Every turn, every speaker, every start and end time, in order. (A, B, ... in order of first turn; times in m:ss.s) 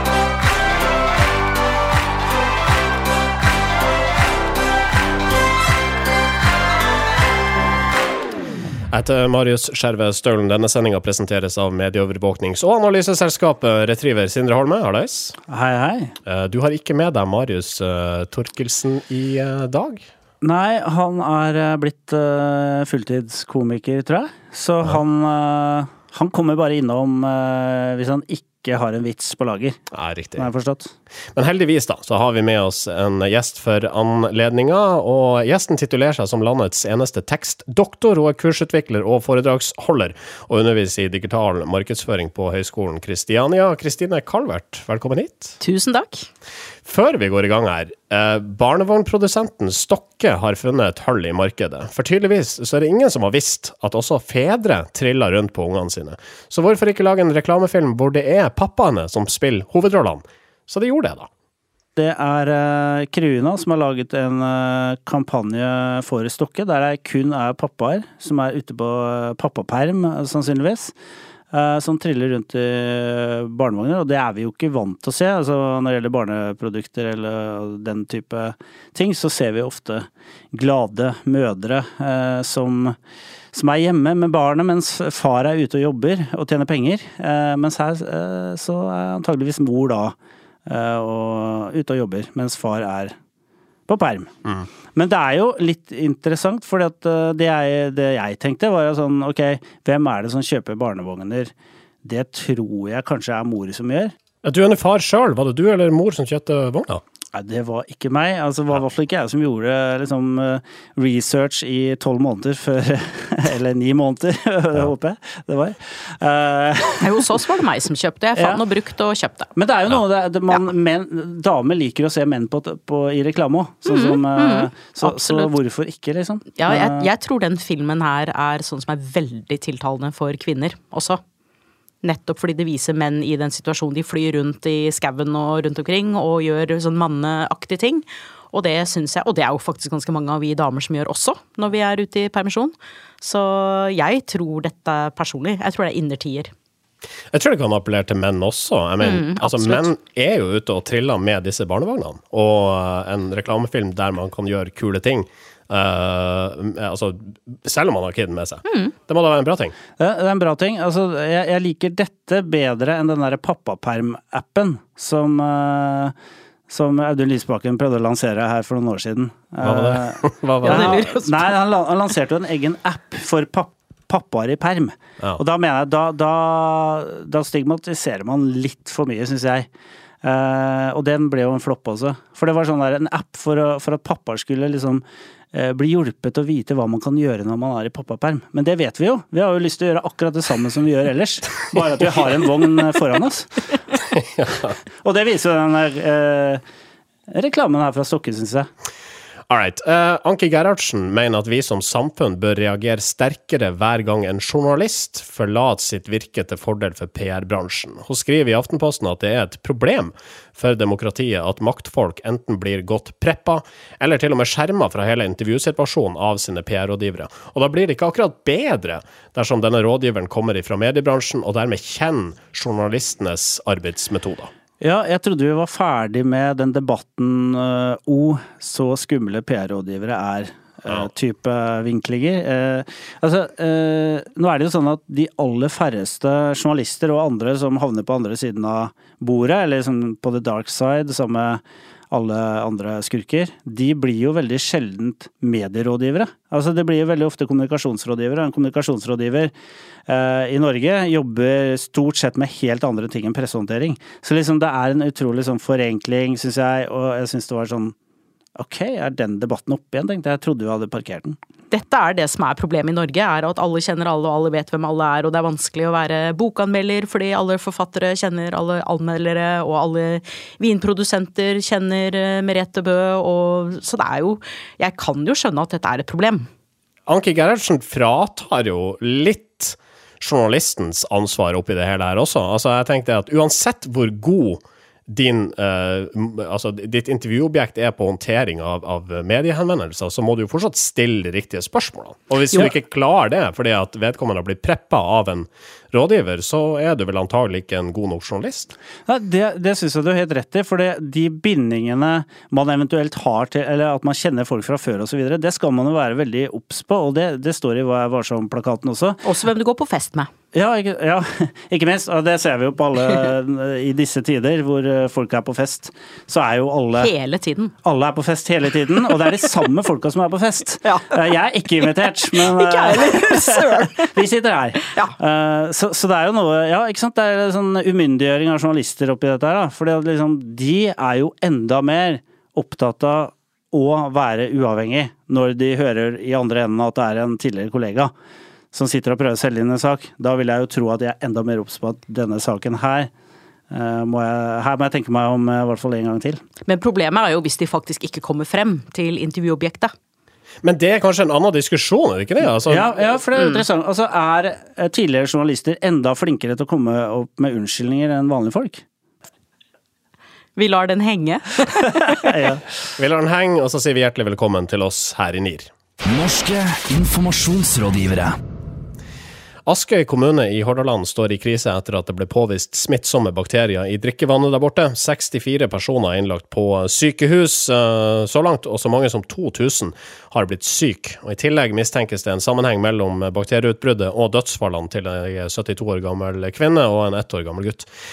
0:08.9-0:15.4 A
0:15.5-0:16.2 B
0:16.3-0:20.1 A
0:20.4-0:29.8 B
0:29.9-0:30.5 A
0:30.4-0:30.9 B
0:31.4-0:45.6 A
0:45.6-0:46.3 C
0:46.9-1:01.3 A
1:02.0-1:10.9 B
1:11.5-1:23.0 B
1:23.5-1:33.2 B
1:33.9-1:34.4 B
1:34.9-1:41.5 B
1:42.0-1:44.1 B
1:44.4-1:47.0 A
1:47.3-1:57.4 B
1:57.0-1:59.5 C
1:58.4-1:58.6 B
1:59.6-2:07.1 B
2:03.9-2:05.5 C
2:06.6-2:11.2 C
2:12.0-2:26.5 C
2:27.3-2:39.8 A
2:29.0-2:29.9 C
2:38.7-2:38.9 C
2:40.0-2:46.2 B
2:46.7-2:59.7 B
2:49.6-2:51.1 A
2:50.6-2:51.6 C
3:00.2-3:13.6 B
3:14.1-3:14.8 A
3:15.0-3:16.6 B
3:17.3-3:18.7 B
3:19.5-3:44.5 A
3:44.8-4:09.5 B
4:10.1-4:18.0 B
4:18.6-4:21.4 B
4:21.7-4:36.5 C
4:37.1-4:58.8 A
4:59.1-5:09.2 B
5:09.2-5:10.3 C
5:10.5-5:17.1 B
5:17.0-5:17.7 C
5:17.8-5:38.1 B
5:20.8-5:21.2 C
5:22.3-5:24.2 C
5:24.8-5:25.2 C
5:38.7-5:43.1 B
5:43.7-5:46.4 B
5:46.7-5:49.9 C
5:50.6-5:52.9 A
5:52.7-5:58.8 B
5:53.4-5:53.6 C
6:00.6-6:02.4 C
6:02.2-6:02.6 B
6:03.0-6:05.7 A
6:06.0-6:08.4 D
6:09.7-6:27.9 A